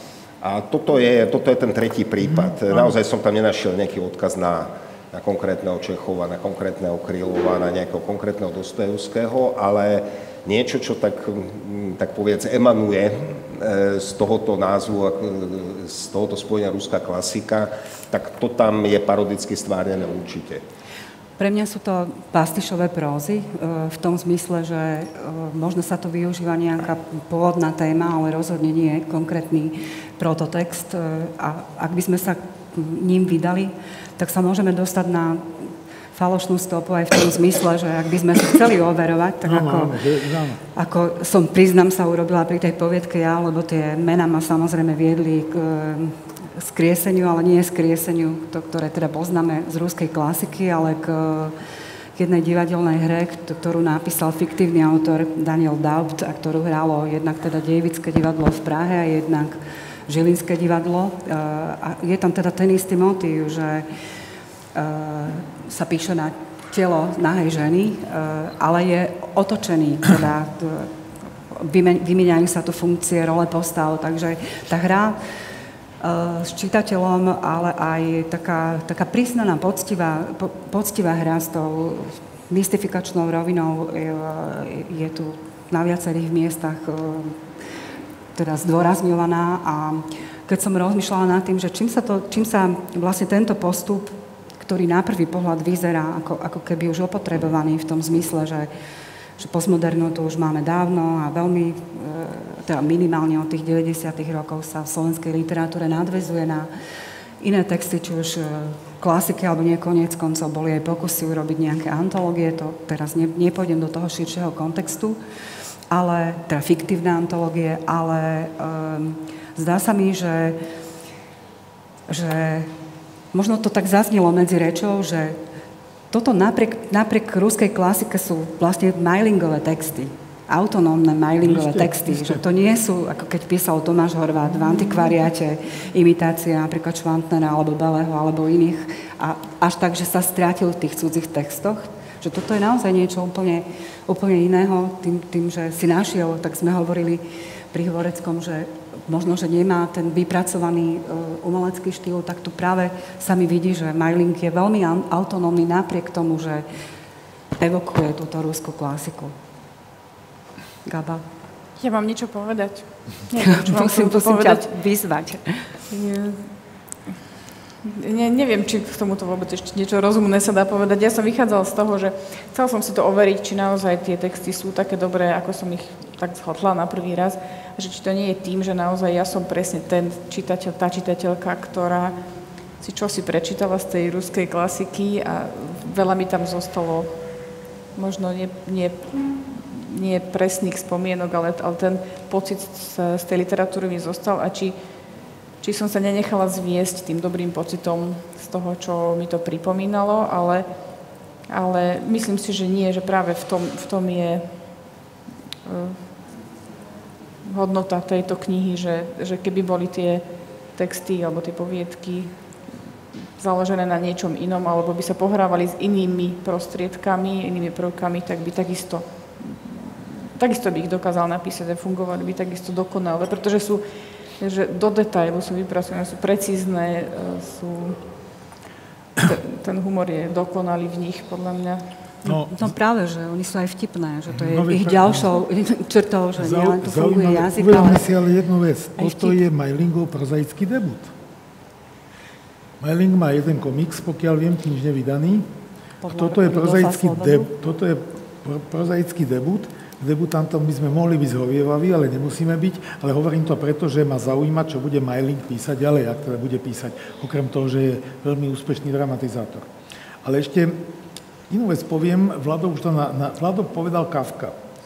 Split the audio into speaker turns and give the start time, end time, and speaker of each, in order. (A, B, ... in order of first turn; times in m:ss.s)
0:00.4-0:20.6 A
0:21.4-0:40.0 B
0:39.4-0:40.6 C
0:40.7-0:51.6 B
0:52.2-1:03.9 B
1:04.7-1:10.9 B
1:11.5-1:15.2 B
1:16.0-1:27.4 B
1:28.4-1:38.7 B
1:39.4-1:46.7 B
1:47.4-1:55.2 B
1:55.9-2:00.6 B
2:02.1-2:02.7 B
2:03.3-2:05.4 B
2:06.1-2:36.6 B
2:11.4-2:12.4 C
2:37.6-2:39.3 B
2:40.8-2:41.2 B
2:41.8-2:44.7 D
2:43.4-2:45.7 B
2:45.9-2:46.5 D
2:47.8-3:02.2 D
3:02.8-3:07.2 D
3:08.0-3:14.8 D
3:15.6-3:20.7 D
3:21.5-3:24.6 D
3:25.7-3:26.0 D
3:27.4-3:30.2 D
3:30.8-3:32.3 D
3:33.4-3:43.8 D
3:44.4-3:48.0 D
3:49.2-3:51.9 D
3:52.2-3:52.7 C
3:52.3-3:58.1 B
3:54.3-3:55.3 C
3:56.4-4:01.1 C
3:59.0-3:59.4 B
4:02.8-4:05.5 C
4:06.0-4:07.5 B
4:06.1-4:19.7 C
4:20.2-4:20.9 C
4:21.5-4:24.6 C